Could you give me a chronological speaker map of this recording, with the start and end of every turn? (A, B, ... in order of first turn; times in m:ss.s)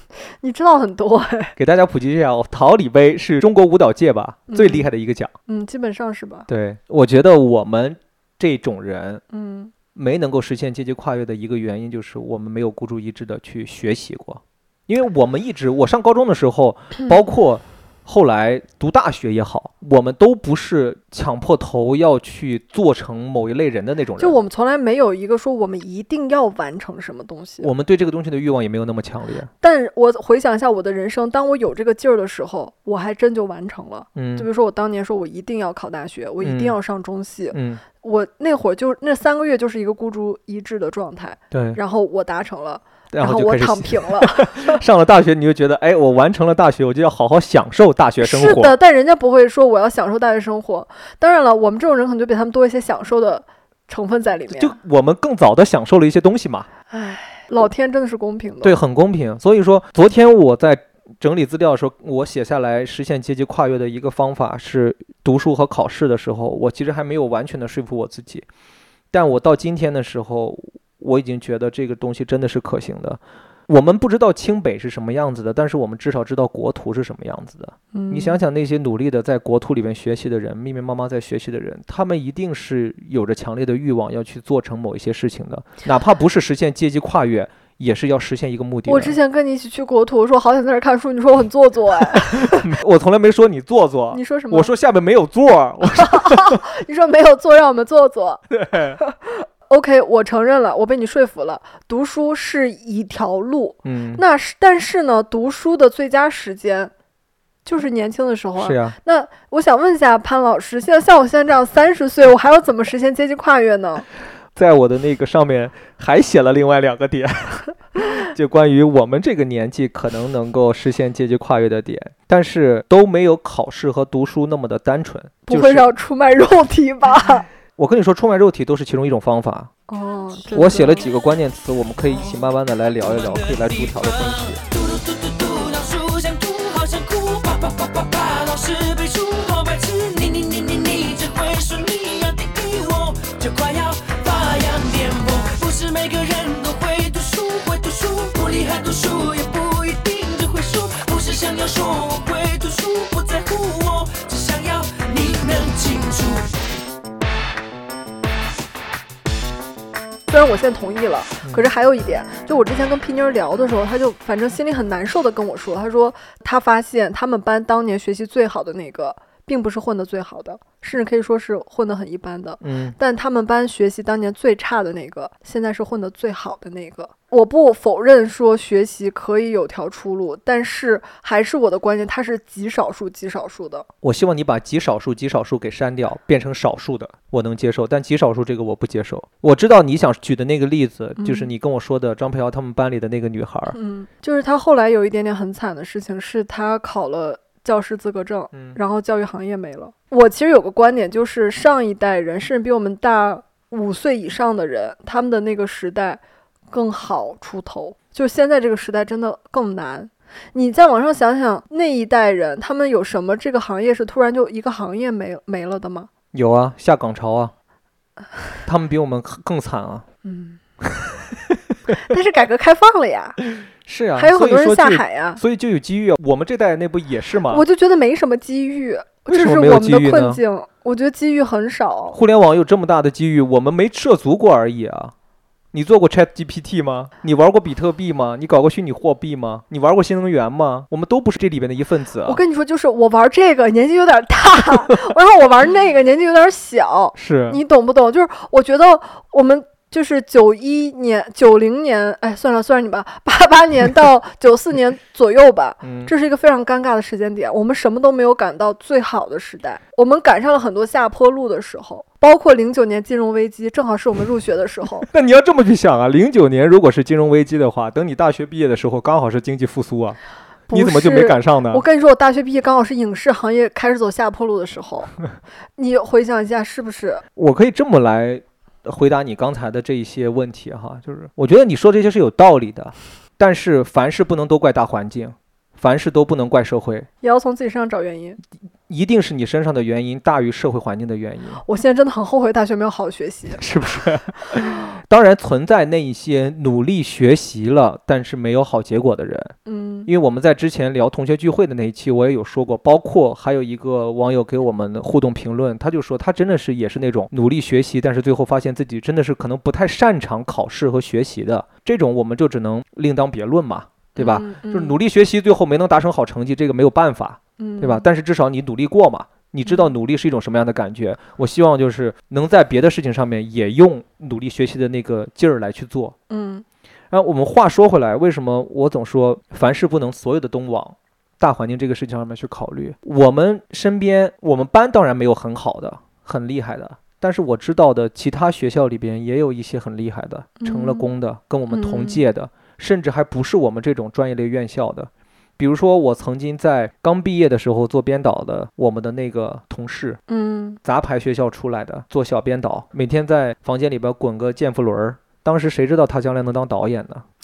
0:00.2-0:01.6 A
0:01.6-0:05.3 B
0:04.5-0:04.9 A
0:05.5-0:06.5 A
0:06.5-0:09.2 B
0:09.3-0:09.7 A
0:09.9-0:24.4 B
0:24.2-0:27.7 A
0:27.6-0:29.5 B
0:29.6-0:44.8 A
0:34.2-0:34.5 B
0:36.4-0:36.8 B
0:37.5-0:37.8 B
0:41.5-0:41.8 B
0:43.1-0:48.7 B
0:48.2-0:54.8 A
0:54.5-0:56.7 B
0:56.9-0:58.8 A
0:58.6-1:08.4 B
1:09.1-1:29.2 B
1:17.9-1:18.4 A
1:28.9-1:32.6 A
1:32.2-1:36.6 B
1:34.1-1:34.7 A
1:35.9-1:38.4 A
1:38.5-1:39.0 B
1:39.0-1:46.9 A
1:43.8-1:44.2 B
1:47.6-1:54.0 A
1:48.6-1:48.9 B
1:54.5-2:05.9 B
2:05.5-2:07.5 A
2:07.8-2:09.7 B
2:09.9-2:11.1 A
2:10.5-2:14.6 B
2:13.1-2:36.5 C
2:40.3-3:03.9 A
2:52.6-2:53.0 B
3:04.0-3:13.8 B
3:11.2-3:11.5 A
3:13.7-3:36.1 A
3:18.5-3:18.8 B
3:36.3-3:37.5 B
3:38.6-3:40.0 B
3:40.2-3:40.6 A
3:41.9-3:43.4 A
3:43.8-3:47.6 B
3:44.2-3:45.4 A
3:47.5-3:52.2 A
3:49.3-3:50.4 B
3:52.1-3:55.1 B
3:55.7-4:02.4 B
4:02.2-4:25.1 A
4:07.1-4:07.6 B
4:15.8-4:16.1 B
4:25.1-4:30.2 B
4:30.7-4:35.1 A
4:30.7-4:31.8 B
4:35.8-4:37.2 A
4:37.4-4:47.1 B
4:47.2-4:48.4 A
4:48.9-4:51.6 B
4:51.6-4:53.6 A
4:53.6-4:59.5 B
4:59.6-5:00.1 A
5:00.1-5:26.2 B
5:14.2-5:15.0 A
5:17.6-5:18.1 A
5:19.7-5:19.9 A
5:26.3-5:26.6 A
5:27.1-5:50.2 B
5:40.6-5:41.1 A
5:41.7-5:42.2 A
5:50.3-5:50.8 A
5:50.8-5:57.2 B